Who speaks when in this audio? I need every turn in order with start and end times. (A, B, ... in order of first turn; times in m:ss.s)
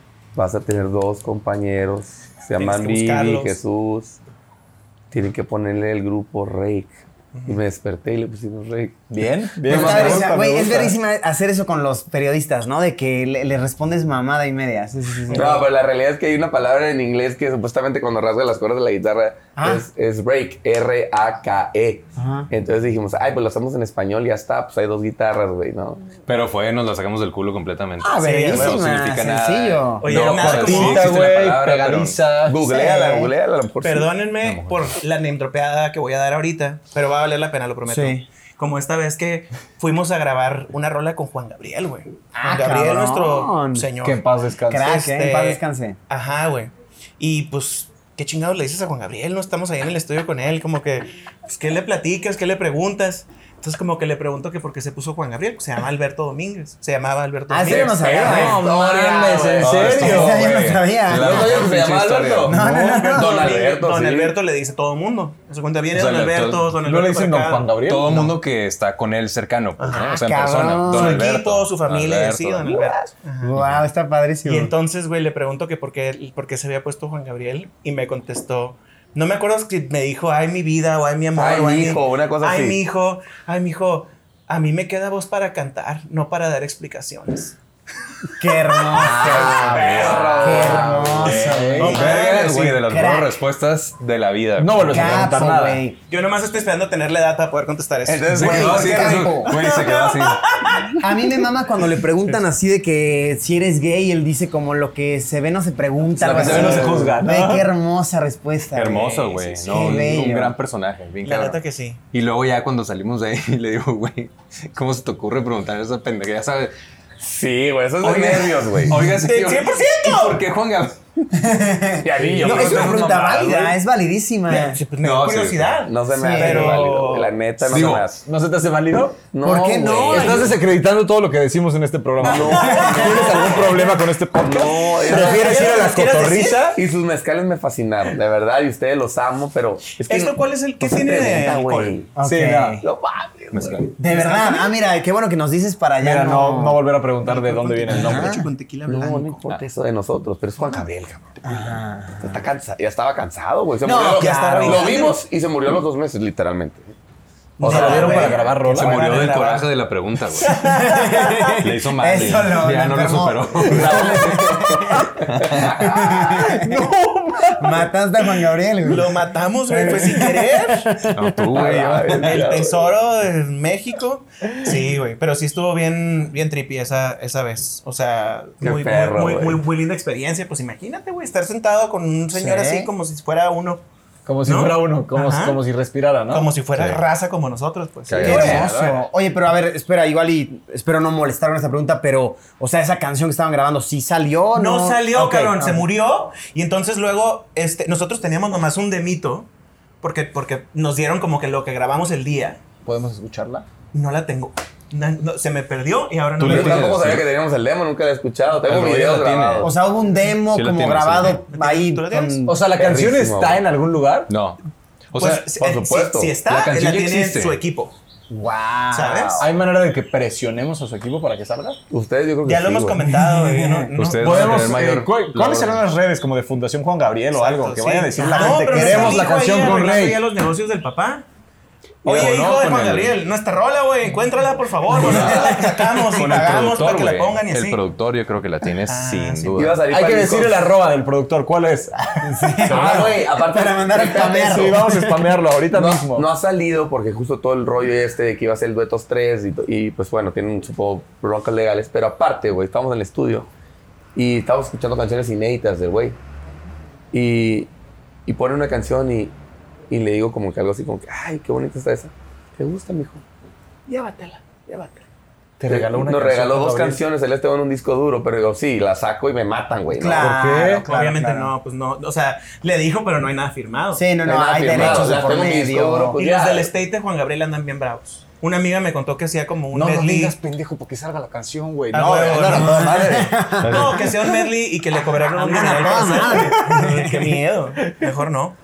0:00.4-0:04.2 A
0:02.6-0:03.6 B
0:05.1-0:07.0 A
0:07.4-0:07.6 B
0:07.5-0:09.0 A
0:09.1-0:11.0 C
0:09.6-0:10.3 A
0:09.7-0:15.6 D
0:15.3-0:15.7 B
0:15.3-0:26.0 A
0:19.6-0:19.8 D
0:22.2-0:22.5 D
0:26.3-0:32.2 E
0:28.0-0:30.1 D
0:28.2-0:28.8 B
0:30.0-0:31.1 B
0:30.1-0:32.6 C
0:32.5-0:34.1 A
0:32.6-0:33.3 D
0:33.8-0:44.2 B
0:34.4-0:34.9 E
0:37.9-0:38.2 D
0:42.4-0:43.9 D
0:44.0-0:45.0 C
0:44.7-0:46.0 D
0:44.8-0:58.0 B
0:57.5-0:58.7 D
0:57.7-0:59.9 A
0:58.0-1:00.5 C
0:59.3-1:01.7 D
0:59.6-1:02.6 E
1:01.1-1:04.4 A
1:02.4-1:03.6 D
1:02.5-1:03.1 C
1:02.8-1:07.7 B
1:05.9-1:06.7 E
1:06.8-1:08.3 C
1:07.8-1:12.8 E
1:09.8-1:11.3 D
1:10.9-1:13.5 B
1:12.7-1:14.7 D
1:13.6-1:13.8 E
1:14.4-1:27.6 B
1:21.4-1:22.8 A
1:28.4-1:33.4 D
1:28.7-1:30.4 B
1:29.0-1:32.0 C
1:29.4-1:35.3 E
1:29.8-1:31.4 A
1:31.8-1:32.8 B
1:34.6-1:35.8 C
1:34.8-1:36.0 D
1:36.1-1:41.0 B
1:38.0-1:39.2 A
1:38.4-1:39.6 D
1:38.4-1:40.6 E
1:41.0-1:50.6 D
1:46.2-1:47.7 C
1:46.2-1:47.1 E
1:48.7-1:51.6 E
1:51.2-1:52.0 B
1:52.1-1:56.7 E
1:57.2-1:59.1 A
1:58.0-2:01.0 E
1:59.0-2:00.4 B
2:01.3-2:04.8 D
2:02.0-2:03.8 A
2:02.5-2:02.8 B
2:04.5-2:07.4 B
2:05.0-2:05.9 E
2:05.9-2:08.2 A
2:06.1-2:06.8 D
2:07.6-2:08.2 E
2:08.2-2:09.2 C
2:09.3-2:10.5 A
2:09.4-2:10.5 D
2:09.9-2:10.3 E
2:10.1-2:16.8 C
2:12.2-2:15.8 A
2:12.3-2:13.8 B
2:12.6-2:13.4 D
2:15.1-2:16.7 B
2:16.7-2:22.1 A
2:20.1-2:22.0 B
2:22.2-2:22.9 D
2:22.2-2:22.8 C
2:22.8-2:23.9 A
2:23.5-2:23.9 E
2:24.0-2:26.8 D
2:24.1-2:24.7 B
2:26.0-2:28.4 C
2:27.2-2:29.5 B
2:27.9-2:28.4 D
2:28.9-2:36.9 A
2:31.4-2:32.4 D
2:33.8-2:35.1 D
2:33.9-2:35.2 B
2:37.6-2:38.4 A
2:37.6-2:39.7 B
2:37.6-2:39.0 C
2:38.6-2:40.6 E
2:40.4-2:41.6 B
2:40.4-2:46.9 D
2:41.6-2:44.4 E
2:43.6-2:45.7 A
2:44.9-2:45.2 C
2:45.2-2:45.9 E
2:45.8-2:47.9 C
2:47.5-2:51.3 D
2:48.8-2:51.0 B
2:51.1-2:52.4 E
2:51.5-2:52.9 A
2:52.2-3:03.8 B
2:58.6-2:59.6 A
3:02.3-3:02.9 D
3:04.3-3:06.5 C
3:04.4-3:05.6 B
3:06.3-3:08.8 B
3:06.8-3:07.0 E
3:08.1-3:08.7 E
3:08.2-3:15.9 D
3:08.2-3:09.0 C
3:14.6-3:19.5 B
3:20.0-3:22.6 B
3:22.8-3:23.6 C
3:23.9-3:27.0 B
3:26.4-3:27.3 E
3:26.4-3:29.7 A
3:28.6-3:29.7 E
3:29.6-3:32.6 D
3:30.5-3:31.4 E
3:31.5-3:32.4 B
3:32.5-3:34.3 C
3:32.7-3:33.6 A
3:34.3-3:34.6 E
3:35.1-3:35.5 E
3:35.2-3:38.0 B
3:35.6-3:36.4 A
3:36.5-3:37.6 E
3:38.3-3:39.5 D
3:38.9-3:39.4 B
3:39.4-3:41.8 C
3:41.9-3:43.1 A
3:42.5-3:44.8 B
3:43.2-3:43.9 D
3:43.9-3:45.9 E
3:44.2-3:50.2 C
3:47.3-3:51.3 B
3:48.2-3:49.3 D
3:52.0-3:57.8 B
3:52.0-3:53.2 E
3:54.9-3:56.0 D
3:55.0-3:59.8 E
3:58.9-3:59.6 B
3:59.6-4:00.6 A
3:59.9-4:02.6 C
4:02.2-4:05.3 D
4:02.6-4:04.8 A
4:04.3-4:06.3 C
4:05.7-4:13.5 A
4:14.2-4:16.2 A
4:17.1-4:17.7 A
4:18.3-4:19.3 A
4:19.9-4:23.2 A
4:23.9-4:25.0 A
4:25.6-4:27.0 C
4:25.7-4:30.3 A
4:29.9-4:31.5 D
4:30.1-4:30.9 C
4:30.8-4:34.2 B
4:34.0-4:36.2 D
4:34.2-4:36.7 A
4:34.8-4:35.1 B
4:36.2-4:40.4 B
4:39.7-4:43.5 C
4:41.9-4:43.0 B
4:42.3-4:44.3 D
4:43.6-4:44.0 E
4:43.7-4:48.6 B
4:45.2-4:47.4 D